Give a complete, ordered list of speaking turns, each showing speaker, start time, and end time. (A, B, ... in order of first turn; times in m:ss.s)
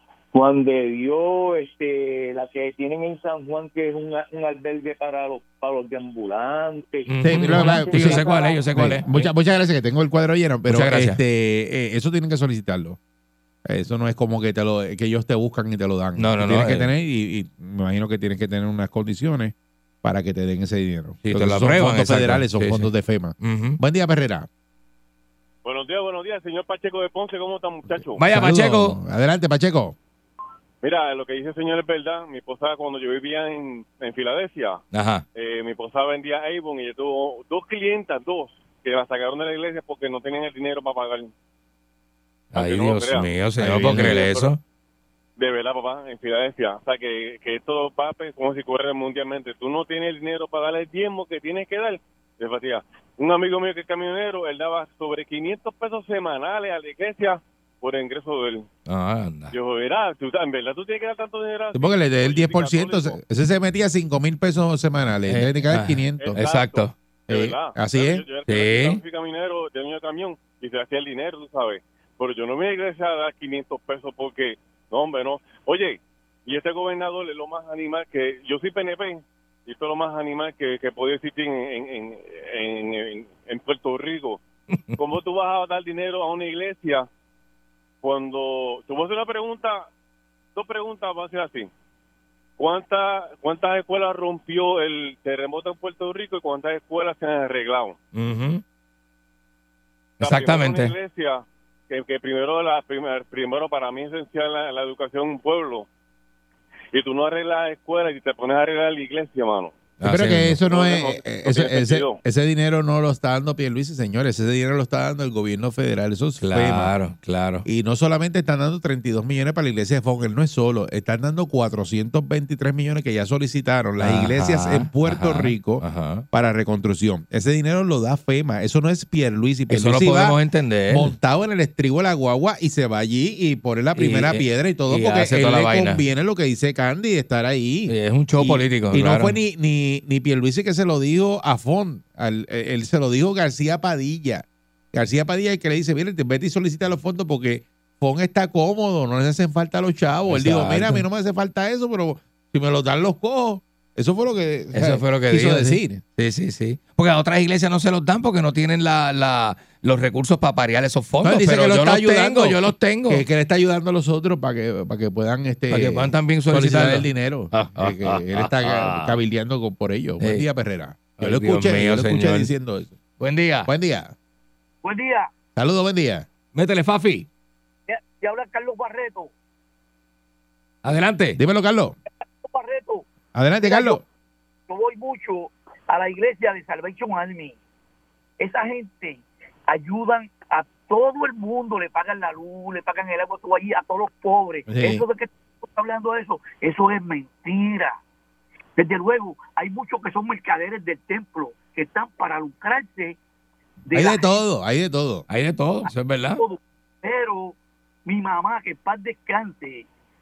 0:00.3-0:08.6 A
0:07.1-0:09.3 B
0:07.2-0:13.0 C
0:10.7-0:11.2 B
0:13.6-0:24.5 C
0:16.2-0:16.9 B
0:21.2-0:22.9 B
0:23.4-0:23.8 B
0:25.6-0:28.2 D
0:28.2-0:29.0 B
0:28.2-0:29.9 C
0:30.8-0:34.8 D
0:34.9-0:35.2 B
0:35.3-0:41.3 D
0:42.5-0:44.5 D
0:42.5-0:44.6 B
0:43.7-0:44.2 C
0:45.4-0:58.7 D
0:58.9-0:59.6 B
0:59.5-1:03.2 D
1:01.7-1:06.4 C
1:05.3-1:06.9 B
1:06.2-1:24.4 D
1:07.3-1:08.2 C
1:08.4-1:09.0 B
1:24.7-1:25.0 B
1:25.0-1:27.1 D
1:28.0-1:29.9 D
1:30.5-1:31.7 D
1:32.6-1:38.0 D
1:38.1-1:38.6 B
1:40.2-1:45.9 D
1:40.2-1:40.9 B
1:46.9-1:49.8 D
1:50.0-1:50.6 B
1:50.0-1:56.9 C
1:50.7-1:52.2 D
1:56.4-1:57.6 B
1:57.6-2:10.4 C
2:04.0-2:06.2 B
2:09.7-2:11.1 B
2:10.9-2:36.0 C
2:13.9-2:16.0 B
2:17.9-2:19.4 B
2:30.3-2:31.0 B
2:34.7-2:43.2 B
2:41.2-2:52.9 C
2:45.7-2:49.2 B
2:50.2-2:50.4 B
2:51.2-2:52.5 B
2:53.2-2:53.7 B
2:53.6-2:54.1 C
2:54.8-2:55.3 E
2:55.6-2:56.2 C
2:56.5-2:57.3 B
2:57.9-2:59.3 E
3:00.8-3:01.4 B
3:01.4-3:02.0 C
3:02.4-3:03.0 E
3:03.3-3:04.0 C
3:03.6-3:04.0 E
3:04.7-3:07.6 E
3:08.4-3:18.0 E
3:14.7-3:15.0 C
3:18.8-3:23.2 E
3:23.9-3:24.3 E
3:23.9-3:25.2 C
3:25.3-3:26.4 B
3:26.4-3:27.5 E
3:28.0-3:29.8 E